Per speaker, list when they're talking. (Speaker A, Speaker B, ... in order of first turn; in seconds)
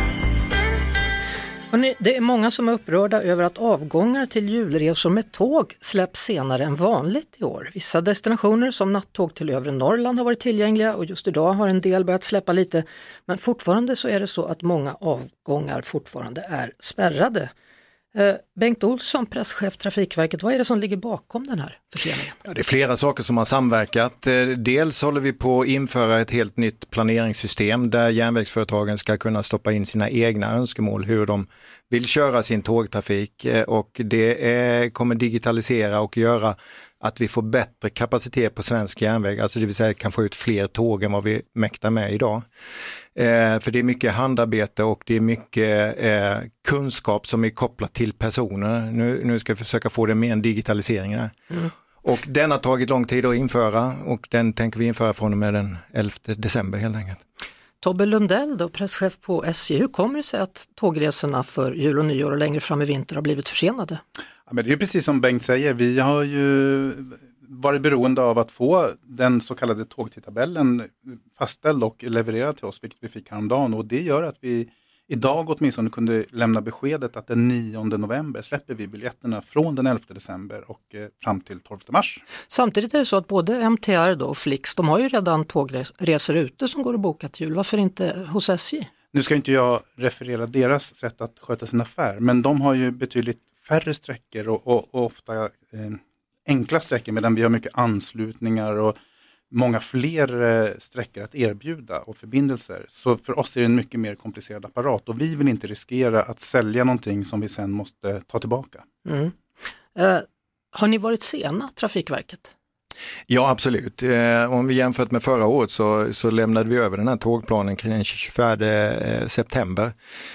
Speaker A: 1.7-17.5, 18.1-22.3, 57.8-64.0, 82.5-88.9, 109.0-109.3, 109.9-112.5
Speaker B: 22.4-42.4, 43.1-51.3, 52.0-57.2, 113.3-119.9
Speaker C: 64.5-82.2, 89.1-99.0, 99.5-108.8